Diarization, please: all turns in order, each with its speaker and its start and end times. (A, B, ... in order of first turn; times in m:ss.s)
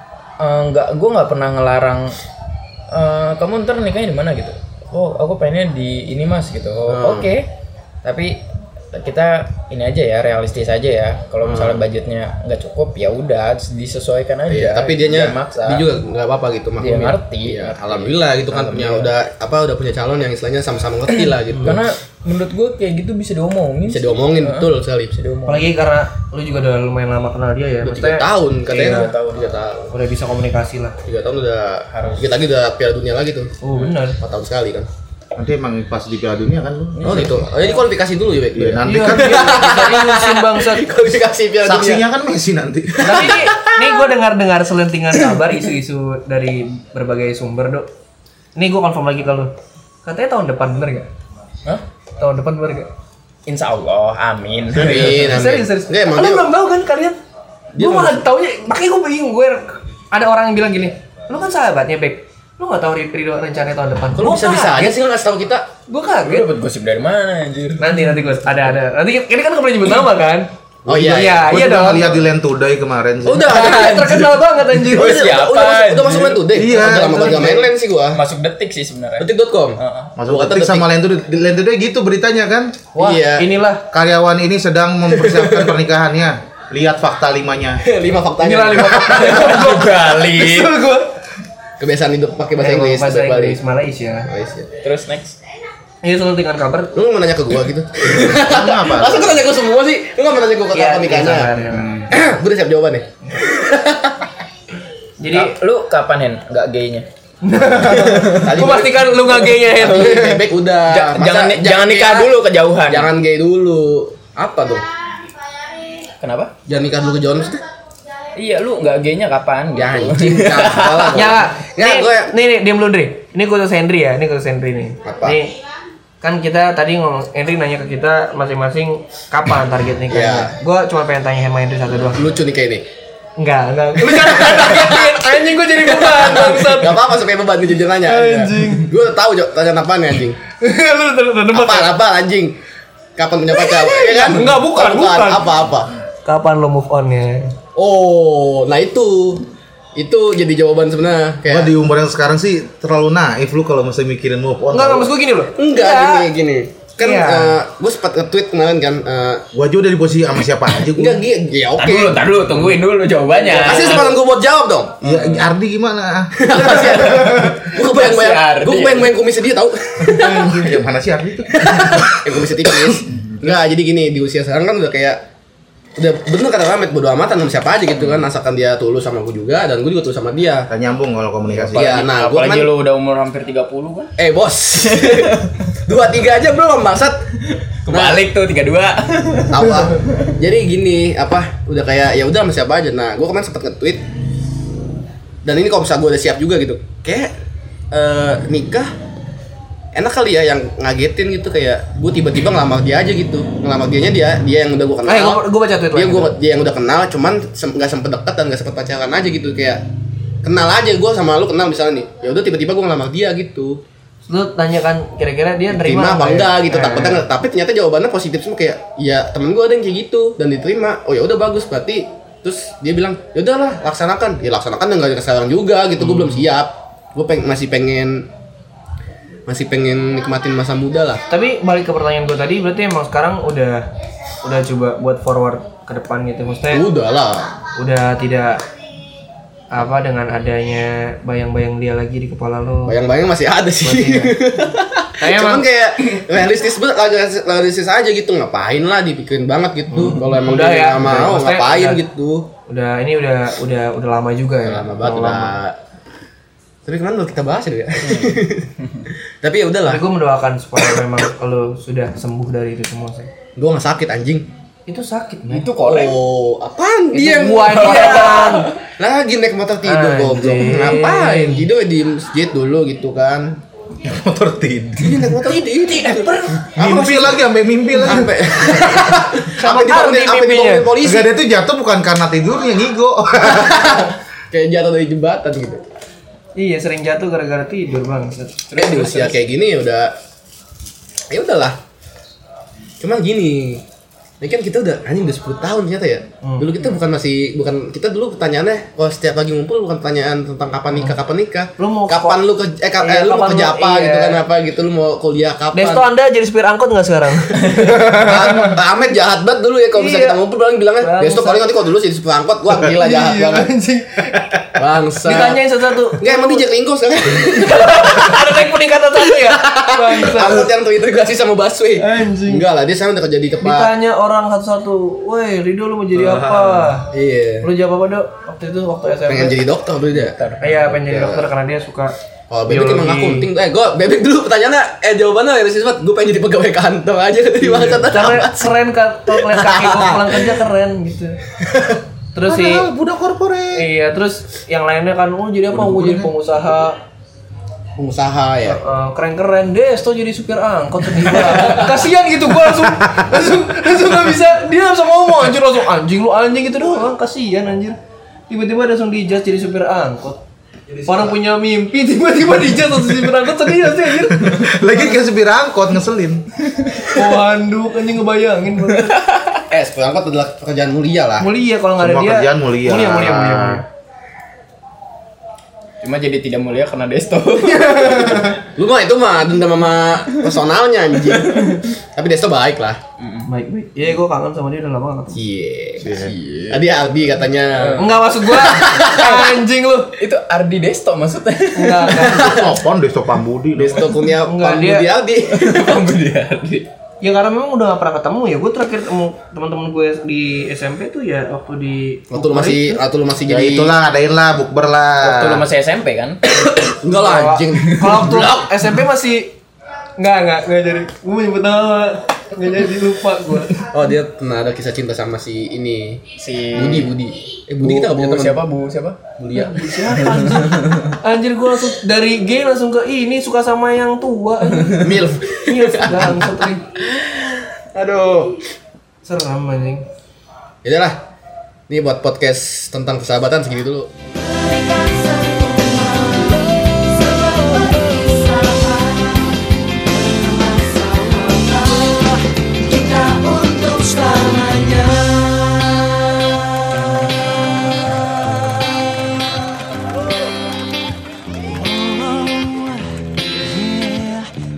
0:00.4-0:02.2 A
0:02.9-0:07.5 A
0:06.9-0:07.3 B
0:08.0-0:15.9 A
0:11.4-0:11.8 B
0:14.5-0:21.9 B
0:16.8-0:19.1 A
0:21.1-0:25.7 A
0:23.9-0:25.2 B
0:25.4-0:29.1 C
0:27.8-0:29.9 B
0:28.7-0:29.6 A
0:29.9-0:31.0 C
0:31.0-0:33.5 B
0:31.9-0:32.3 A
0:33.6-0:34.2 C
0:34.2-0:34.9 B
0:35.4-0:37.4 D
0:36.9-0:37.8 A
0:37.0-0:42.0 B
0:38.5-0:39.5 D
0:38.8-0:40.9 C
0:41.6-0:43.4 D
0:43.0-0:47.9 C
0:43.0-0:44.0 B
0:48.5-0:49.5 C
0:50.0-0:51.1 C
0:52.2-0:52.9 C
0:53.5-0:55.5 A
0:54.7-0:56.5 B
0:55.2-0:57.2 C
0:57.8-1:05.0 C
0:57.8-0:58.2 B
1:04.1-1:05.7 B
1:05.9-1:06.5 C
1:06.2-1:08.7 A
1:07.8-1:12.2 C
1:10.8-1:11.6 B
1:11.0-1:13.6 D
1:13.2-1:14.3 B
1:13.4-1:15.2 C
1:14.9-1:18.2 B
1:14.9-1:16.4 A
1:16.5-1:17.6 D
1:16.7-1:17.7 C
1:18.1-1:20.1 A
1:19.2-1:20.8 B
1:20.2-1:22.8 D
1:23.0-1:23.5 B
1:23.0-1:23.8 C
1:23.9-1:27.8 D
1:25.1-1:25.7 B
1:27.8-1:29.7 B
1:28.4-1:31.1 C
1:29.0-1:30.7 A
1:31.8-1:33.6 B
1:32.6-1:34.3 C
1:34.3-1:34.7 B
1:34.8-1:35.4 A
1:36.0-1:36.9 C
1:36.9-1:41.5 B
1:38.2-1:39.4 D
1:40.7-1:41.9 C
1:41.7-1:42.1 D
1:42.1-1:44.2 B
1:45.2-1:45.5 C
1:45.3-1:47.1 A
1:47.4-1:50.4 C
1:48.2-1:54.8 B
1:49.8-1:53.1 A
1:56.2-1:56.5 A
1:56.7-1:57.6 B
1:58.4-2:01.3 A
1:59.7-2:02.3 B
2:01.1-2:05.5 C
2:05.0-2:05.4 B
2:06.2-2:12.2 C
2:10.1-2:10.5 B
2:12.1-2:12.8 B
2:13.4-2:17.0 C
2:14.0-2:20.4 B
2:18.0-2:18.9 C
2:20.6-2:21.9 C
2:21.5-2:22.6 B
2:23.2-2:25.9 B
2:23.5-2:25.5 C
2:26.2-2:27.5 C
2:27.8-2:29.4 B
2:30.0-2:31.7 B
2:31.5-2:35.1 D
2:34.7-2:36.3 C
2:35.6-2:39.4 B
2:37.0-2:37.6 C
2:39.5-2:41.2 D
2:41.0-2:42.7 B
2:41.8-2:44.2 A
2:43.3-2:44.1 C
2:43.5-2:45.3 B
2:45.0-2:46.7 D
2:46.3-2:50.6 B
2:46.8-2:47.6 C
2:46.9-2:49.2 A
2:50.0-2:52.1 D
2:51.5-2:55.2 B
2:53.0-2:53.5 D
2:56.0-3:00.7 B
3:00.7-3:02.0 D
3:01.6-3:04.1 A
3:01.7-3:02.7 B
3:04.2-3:07.2 B
3:04.8-3:05.5 A
3:07.8-3:10.3 A
3:07.9-3:08.2 B
3:09.5-3:14.0 B
3:15.4-3:17.3 B
3:17.9-3:18.9 B
3:19.9-3:29.8 B
3:25.0-3:26.3 C
3:30.4-3:33.8 B
3:34.2-3:37.2 C
3:35.7-3:48.3 B
3:49.5-3:51.2 B
3:51.3-3:53.8 C
3:54.4-3:56.8 C
3:56.7-3:57.6 B
3:57.8-3:58.6 C
3:59.7-4:03.0 C
4:02.8-4:12.5 B
4:03.8-4:04.4 C
4:05.2-4:05.7 C
4:09.9-4:12.0 C
4:12.7-4:15.6 C
4:14.6-4:15.8 B
4:16.8-4:18.7 B
4:18.0-4:19.0 A
4:19.4-4:20.0 B
4:19.9-4:23.3 C
4:23.6-4:24.5 B
4:24.9-4:25.7 C
4:25.5-4:26.2 A
4:25.8-4:33.6 B
4:27.1-4:28.7 C
4:27.7-4:28.7 A
4:29.8-4:31.7 C
4:34.0-4:35.5 D
4:35.0-4:37.4 B
4:35.9-4:37.0 C
4:36.8-4:39.1 D
4:38.0-4:41.3 B
4:39.6-4:40.9 C
4:41.0-4:44.1 D
4:43.4-4:45.8 B
4:46.6-4:48.7 C
4:48.7-4:49.4 A
4:48.8-4:50.1 B
4:51.3-4:51.8 B
4:53.0-4:53.8 B
4:54.4-5:06.1 B
4:56.4-4:56.7 C
5:01.8-5:02.4 C
5:03.0-5:04.4 C
5:05.7-5:08.3 C
5:07.8-5:13.7 B
5:10.0-5:10.4 C
5:11.0-5:11.7 C
5:12.9-5:14.5 C
5:14.8-5:15.6 B
5:15.2-5:16.6 C
5:16.1-5:18.6 B
5:17.4-5:20.6 C
5:19.3-5:23.9 B
5:22.0-5:22.6 C
5:23.6-5:27.1 C
5:26.3-5:26.8 A
5:27.1-5:27.7 B
5:27.6-5:29.6 C
5:29.3-5:30.4 B
5:30.1-5:30.9 A
5:30.6-5:32.1 C
5:31.0-5:31.4 B
5:32.5-5:38.7 B
5:32.7-5:33.5 C
5:37.6-5:41.4 C
5:39.3-5:40.5 B
5:41.6-5:42.0 B
5:42.3-5:42.9 C
5:42.4-5:43.9 D
5:43.7-5:47.0 C
5:45.7-5:46.3 D
5:48.0-5:48.8 B
5:48.6-5:58.0 C
5:51.4-5:51.8 B
5:53.0-5:53.5 D
5:58.5-6:00.4 C
6:01.0-6:05.0 C
6:04.3-6:06.5 D
6:07.1-6:09.3 C
6:09.1-6:09.4 A
6:09.7-6:11.5 B
6:11.4-6:13.8 C
6:12.0-6:13.8 D
6:16.0-6:18.5 A
6:17.8-6:18.5 C
6:18.7-6:23.0 B
6:23.2-6:23.5 A
6:23.5-6:25.4 C
6:25.3-6:29.3 B
6:26.0-6:26.3 D
6:26.0-6:26.8 A
6:27.7-6:28.2 A
6:28.0-6:30.1 C
6:29.0-6:29.5 A
6:30.2-6:32.4 A
6:31.7-6:32.7 C
6:32.2-6:32.7 B
6:32.4-6:34.1 D
6:33.8-6:36.1 B
6:34.4-6:35.1 C
6:35.5-6:36.9 A
6:37.2-6:43.0 C
6:42.3-6:43.9 B
6:43.5-6:45.6 D
6:45.2-6:46.8 A
6:46.7-6:48.6 B
6:47.2-6:49.5 C
6:48.0-6:48.3 A
6:50.2-6:53.8 C
6:53.8-6:58.6 B
6:56.4-6:57.1 A
6:57.8-6:59.2 A
6:59.4-7:00.3 B
6:59.5-7:05.1 C
7:00.1-7:01.1 A
7:05.0-7:06.5 B
7:05.6-7:06.8 C
7:07.9-7:08.6 B
7:09.2-7:10.0 C
7:10.8-7:11.2 B
7:11.9-7:14.1 B
7:15.3-7:16.0 A
7:18.3-7:19.1 A
7:20.4-7:22.1 A
7:22.8-7:25.6 A
7:32.0-7:32.8 A
7:33.8-7:34.4 A